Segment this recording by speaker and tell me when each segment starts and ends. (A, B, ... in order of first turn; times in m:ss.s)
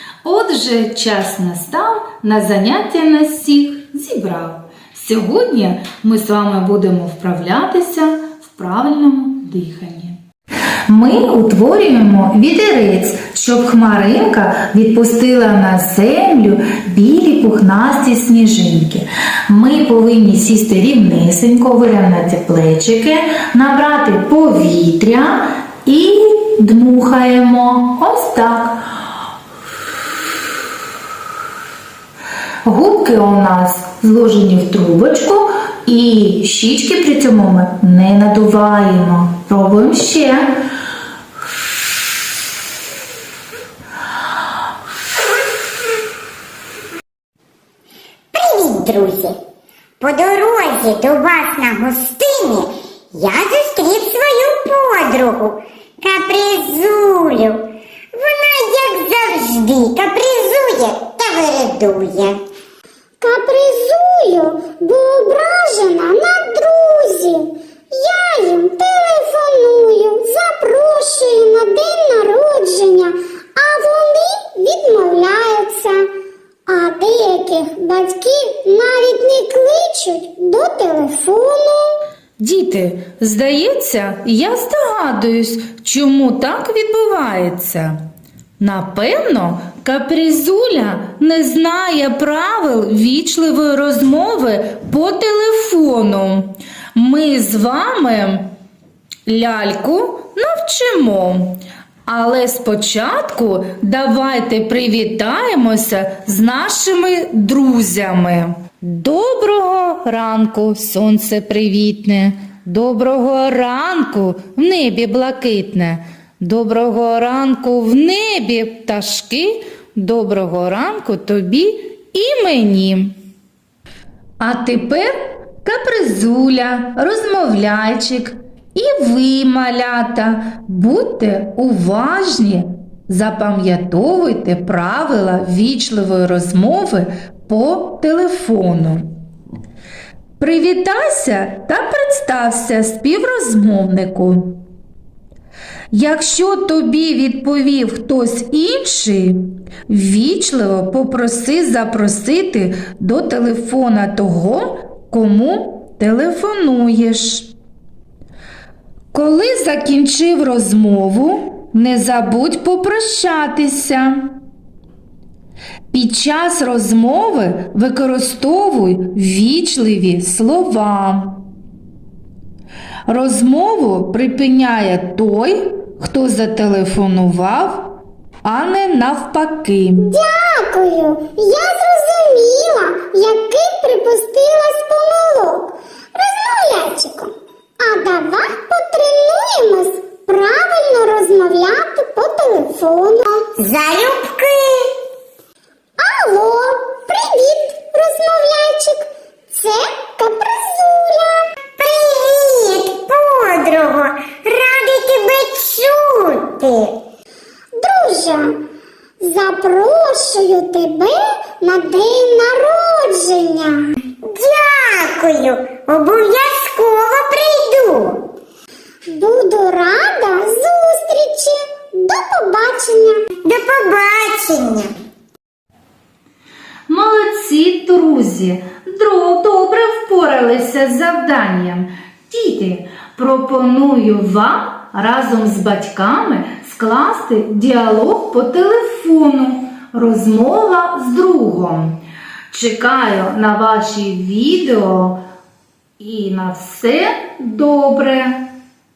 0:00.2-0:10.2 A
0:10.9-0:28.8 A
0:32.6-0:40.5 A
0:48.3-0:49.4 B
0:50.0-1:02.4 B
1:03.2-1:16.1 C
1:16.7-1:22.0 C
1:22.4-1:28.0 A
1:28.6-1:38.5 A
1:39.2-2:03.1 A
2:04.4-2:19.1 A
2:20.4-2:24.6 A
2:25.9-2:37.5 A
2:39.1-2:44.4 A
2:45.9-2:51.4 A
2:53.1-2:57.9 A
2:58.4-3:00.1 A
3:00.0-3:13.5 C
3:13.6-3:14.9 B
3:16.0-3:21.5 C
3:21.8-3:27.0 B
3:27.8-3:28.6 C
3:29.2-3:33.9 C
3:34.2-3:38.2 B
3:39.1-3:43.2 C
3:43.4-3:44.9 B
3:46.9-4:02.0 A
4:02.5-4:05.2 A
4:06.0-4:08.4 A